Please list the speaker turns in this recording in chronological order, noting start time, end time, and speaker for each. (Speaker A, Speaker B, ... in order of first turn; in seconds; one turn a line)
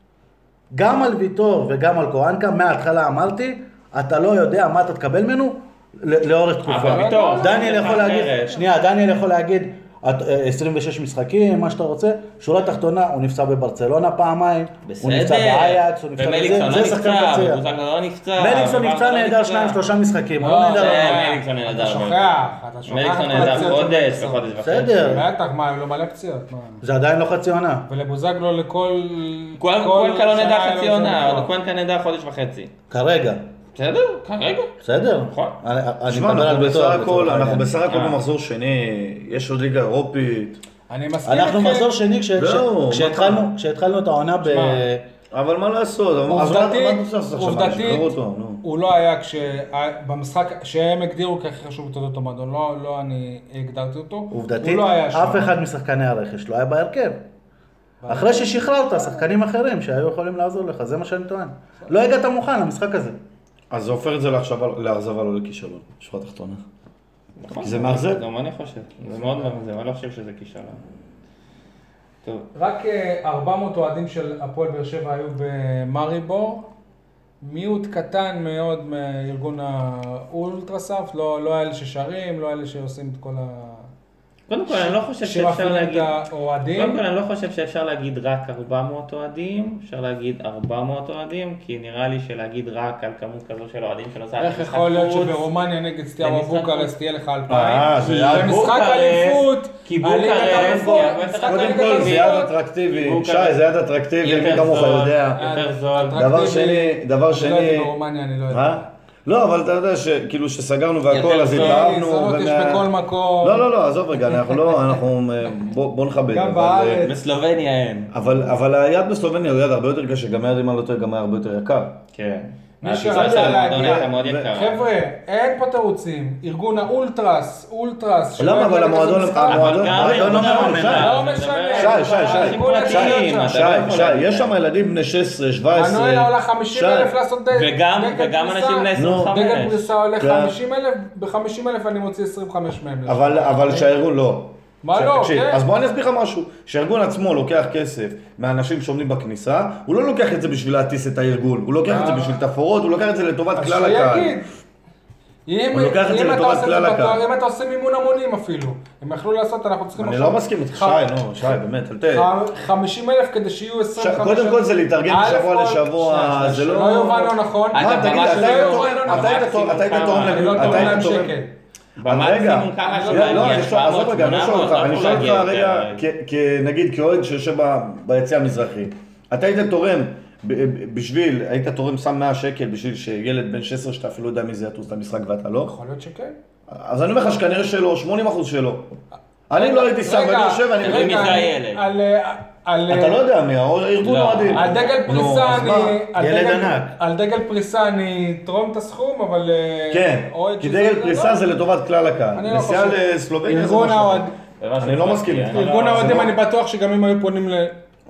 Speaker A: 0.7-17.6
Speaker B: 6.7-8.6
Speaker C: 6.8-8.3
Speaker B: 14.9-19.8
Speaker A: 18.4-21.2
Speaker C: 20.4-24.4
Speaker B: 20.7-25.2
Speaker A: 23.4-23.8
Speaker A: 24.6-25.3
Speaker C: 25.0-26.8
Speaker A: 26.8-27.9
Speaker C: 27.9-31.5
Speaker B: 29.6-32.7
Speaker A: 32.9-33.4
Speaker B: 33.8-34.7
Speaker A: 34.8-37.8
Speaker B: 35.3-35.6
Speaker D: 36.1-40.6
Speaker B: 37.9-38.2
Speaker C: 40.9-41.9
Speaker A: 41.2-45.1
Speaker D: 42.4-43.5
Speaker C: 44.4-44.8
Speaker D: 45.3-48.6
Speaker C: 46.3-55.6
Speaker A: 54.3-57.2
Speaker C: 58.0-59.1
Speaker A: 58.1-63.2
Speaker D: 63.7-66.6
Speaker B: 67.4-70.8
Speaker D: 67.6-68.2
Speaker C: 72.5-76.7
Speaker C: 77.4-83.9
Speaker B: 84.5-86.1
Speaker C: 84.7-87.0
Speaker B: 86.8-95.5
Speaker C: 94.4-102.5
Speaker B: 96.2-96.9
Speaker D: 97.5-98.6
Speaker B: 98.0-103.6
Speaker D: 100.4-105.4
Speaker B: 104.2-106.2
Speaker C: 105.4-108.9
Speaker D: 106.2-107.9
Speaker D: 108.5-117.1
Speaker B: 111.1-111.9
Speaker C: 111.5-113.7
Speaker C: 114.3-114.9
Speaker C: 116.3-117.2
Speaker B: 117.0-118.1
Speaker D: 118.1-122.0
Speaker B: 122.1-124.8
Speaker C: 122.8-133.7
Speaker D: 122.8-124.5
Speaker D: 128.4-131.2
Speaker B: 129.5-134.6
Speaker A: 129.9-131.1
Speaker D: 131.8-137.1
Speaker C: 135.7-143.9
Speaker B: 137.5-139.9
Speaker D: 138.9-139.3
Speaker D: 140.2-140.6
Speaker D: 143.1-154.4
Speaker C: 144.8-145.6
Speaker C: 151.9-152.4
Speaker C: 153.6-154.5
Speaker C: 155.5-161.6
Speaker D: 155.7-157.2
Speaker D: 160.0-162.3
Speaker C: 162.1-171.5
Speaker D: 164.0-171.4
Speaker B: 167.7-171.3
Speaker B: 172.0-176.0
Speaker D: 172.0-185.8
Speaker C: 172.8-173.7
Speaker C: 185.7-186.4
Speaker D: 186.7-188.9
Speaker D: 189.5-191.4
Speaker C: 189.6-193.2
Speaker B: 190.8-191.8
Speaker D: 192.9-196.0
Speaker B: 194.0-195.0
Speaker C: 194.5-201.4
Speaker A: 196.2-197.0
Speaker D: 199.9-206.3
Speaker C: 202.3-204.4
Speaker B: 204.6-206.3
Speaker C: 205.5-207.8